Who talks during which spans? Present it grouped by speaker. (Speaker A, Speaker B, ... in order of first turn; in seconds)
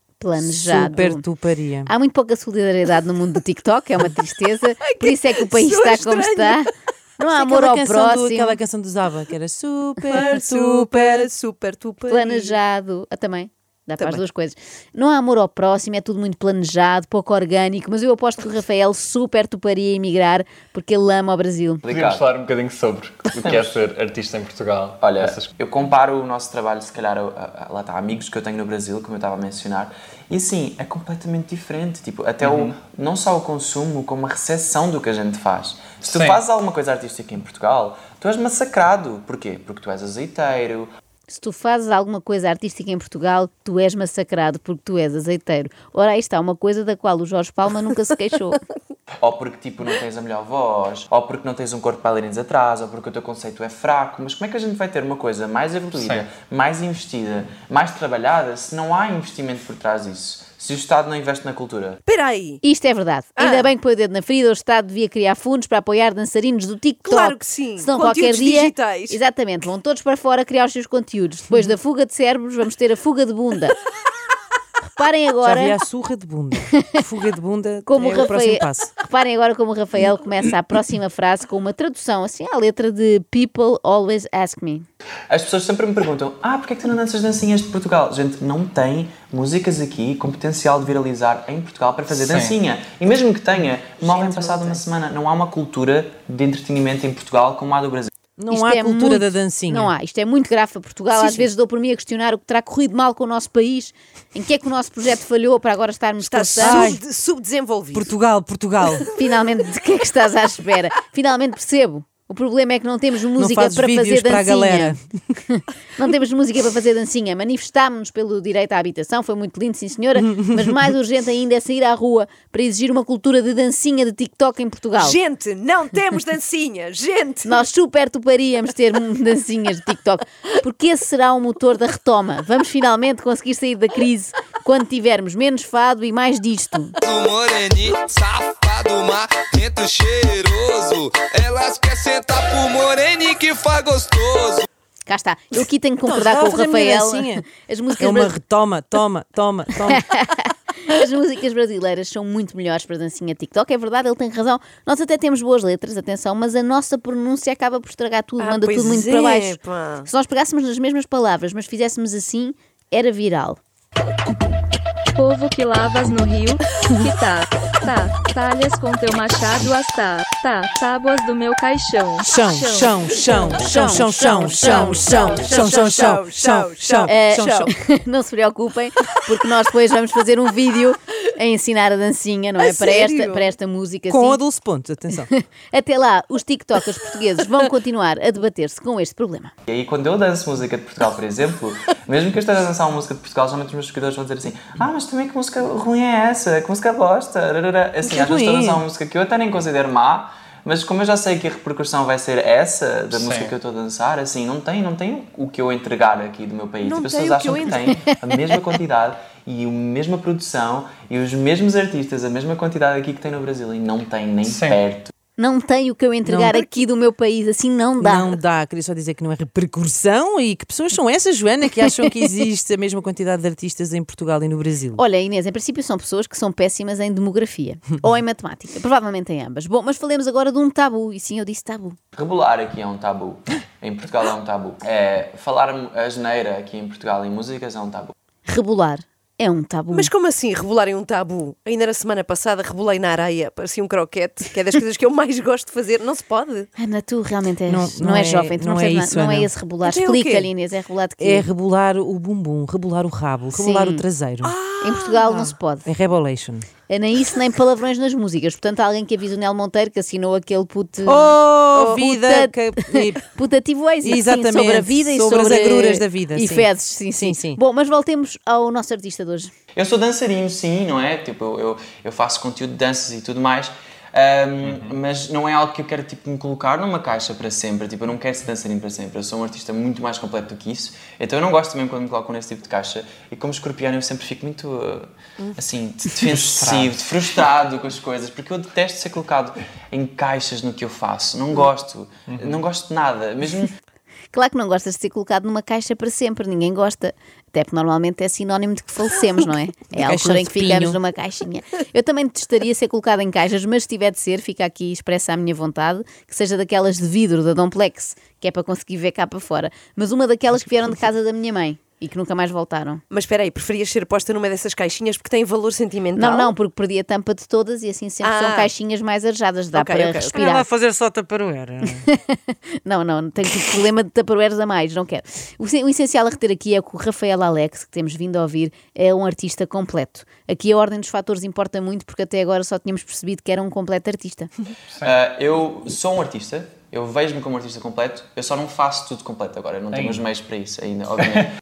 Speaker A: 0.2-1.2, 1.9-8.6, 12.1-21.8, 41.3-48.6, 62.6-73.8, 75.0-75.8, 77.9-84.9, 98.5-106.9, 109.1-115.0, 115.5-125.2, 127.5-137.0, 145.1-148.3, 149.9-163.6, 173.5-175.5, 177.1-184.4, 185.3-189.5, 207.9-208.2, 215.4-218.4, 225.0-232.0, 238.5-240.1, 246.8-251.5, 253.5-254.0, 254.8-255.9, 256.9-269.5, 294.3-313.0, 316.2-320.6, 322.1-334.5
Speaker B: 0.6-1.9, 7.3-11.3, 75.4-78.9, 98.4-99.9, 106.6-107.0, 107.9-109.1, 113.4-115.2, 146.1-147.5, 148.0-150.0, 172.2-177.7, 184.1-185.3, 198.0-198.8, 216.3-216.7, 218.0-225.0, 247.7-249.5, 251.2-254.6, 255.8-256.7, 261.1-263.2, 264.0-267.6, 299.9-301.0, 320.3-322.1
Speaker C: 4.8-6.7, 10.1-12.6, 62.0-62.6, 63.4-63.7, 67.1-69.2, 106.2-108.1, 125.0-127.6, 158.4-160.1, 174.5-177.7, 182.6-183.5, 206.8-207.9, 239.9-246.7, 249.8-250.5, 254.4-255.5, 313.1-316.5, 318.2-318.7, 319.7-320.3
Speaker D: 21.8-22.2, 23.4-23.7, 25.0-40.9, 49.2-62.0, 85.3-98.1, 189.7-215.1, 232.2-238.1, 269.8-293.7, 335.0-341.5
Speaker E: 21.9-25.5, 32.4-32.8, 36.0-36.4, 56.0-56.3, 92.1-92.6, 203.1-203.5, 214.4-214.8, 292.3-292.6, 339.9-340.2
Speaker F: 137.0-144.7
Speaker G: 165.2-173.7, 174.6-175.7